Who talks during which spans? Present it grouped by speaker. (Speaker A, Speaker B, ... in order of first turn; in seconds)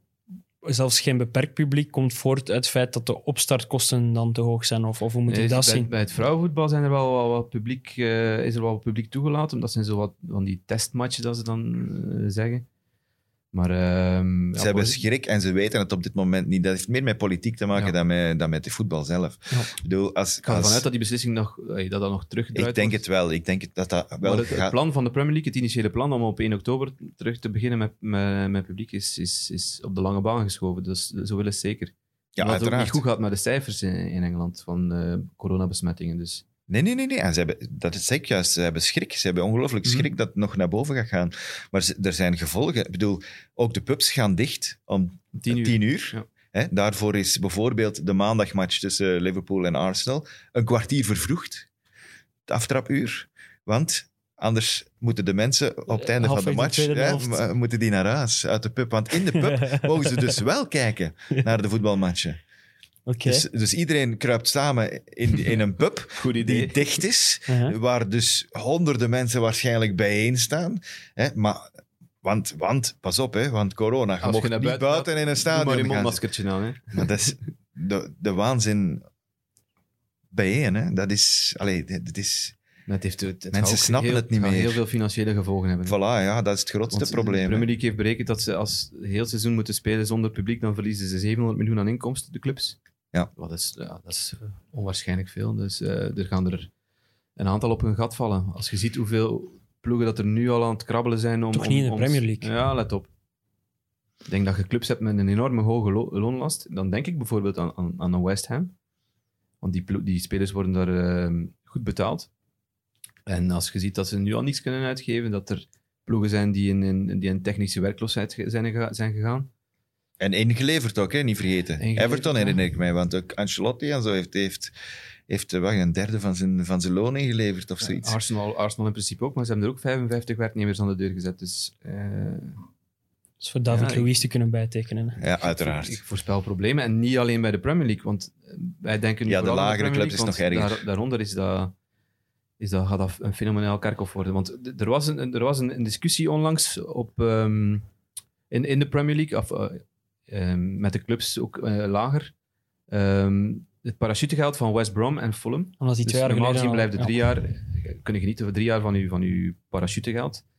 Speaker A: 0.6-5.9, 55.9-57.5, 59.5-60.0, 63.1-63.5, 67.5-67.8, 101.5-102.5, 133.4-135.2, 155.8-157.3
Speaker B: 5.3-12.7, 13.5-15.0, 20.4-23.0, 24.2-36.5, 45.4-46.2, 66.1-67.0, 74.2-77.2, 82.9-86.0, 86.9-92.8, 93.4-96.7, 97.4-103.1, 104.3-108.8, 109.6-112.3, 113.3-119.5, 121.8-122.6, 127.8-132.6, 133.7-134.1, 135.4-141.7, 142.6-147.9, 148.5-152.3, 152.9-160.4
Speaker C: 14.6-20.9, 22.5-24.8, 32.4-33.0, 36.7-51.7, 52.5-62.4, 63.2-71.7, 72.2-76.2, 76.9-79.0, 80.3-82.6, 83.5-84.8, 85.9-87.7, 120.2-124.7, 125.3-128.2, 135.2-136.0, 139.3-140.8